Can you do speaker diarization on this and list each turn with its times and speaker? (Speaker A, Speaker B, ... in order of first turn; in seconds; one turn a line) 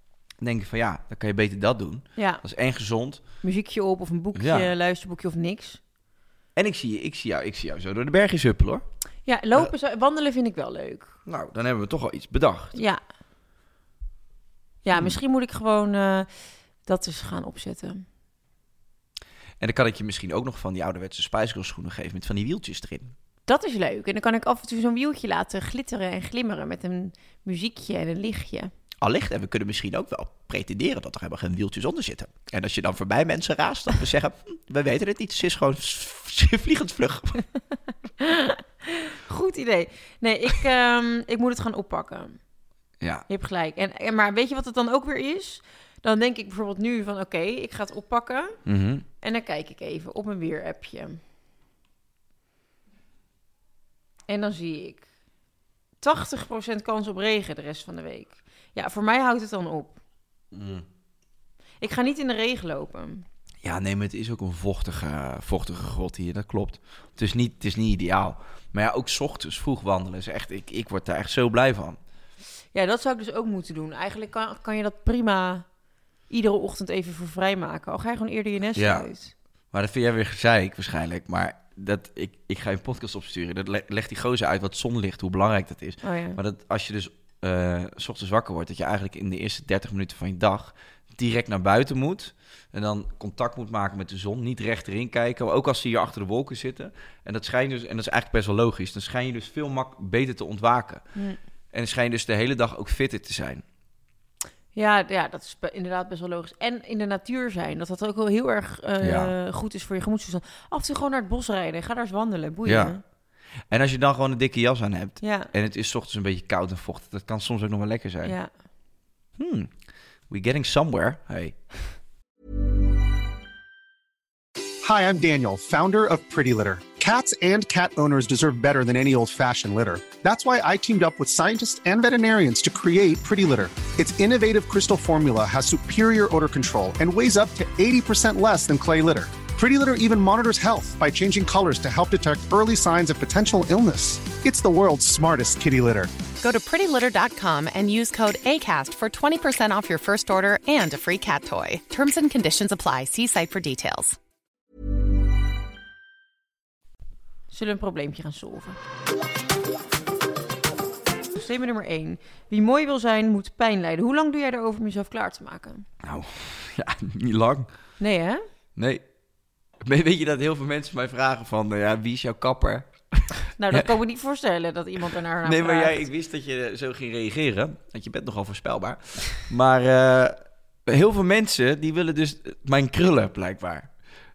Speaker A: 0.4-3.2
Speaker B: 2.2-2.4
Speaker B: 3.4-5.8
Speaker A: 4.3-4.7
Speaker A: 6.5-8.8
Speaker B: 9.2-11.1
Speaker A: 11.2-12.8
Speaker B: 12.7-13.0
Speaker B: 14.8-16.3
Speaker B: 16.8-18.0
Speaker A: 19.6-23.1
Speaker B: 23.5-28.7
Speaker A: 29.0-37.4
Speaker B: 38.2-42.4
Speaker A: 43.0-43.2
Speaker B: 43.3-48.6
Speaker A: 48.6-49.0
Speaker B: 49.2-51.2
Speaker B: 54.3-55.0
Speaker B: 56.0-60.0
Speaker A: 60.5-60.9
Speaker B: 61.8-63.2
Speaker A: 63.6-72.0
Speaker B: 72.7-75.7
Speaker B: 76.3-79.3
Speaker A: 78.8-79.1
Speaker A: 79.7-101.0
Speaker B: 86.0-86.4
Speaker A: 101.7-103.6
Speaker B: 104.7-113.0
Speaker A: 109.0-109.3
Speaker A: 112.6-112.9
Speaker A: 113.7-118.3
Speaker B: 115.2-115.5
Speaker B: 118.2-118.5
Speaker A: 119.3-119.7
Speaker A: 120.3-121.6
Speaker C: 124.8-146.1
Speaker D: 146.4-154.2
Speaker B: 157.5-158.8
Speaker B: 161.3-165.8
Speaker A: 166.0-167.7
Speaker B: 168.0-168.4
Speaker A: 168.8-169.0
Speaker A: 169.8-173.9
Speaker B: 173.6-176.1
Speaker A: 175.4-183.9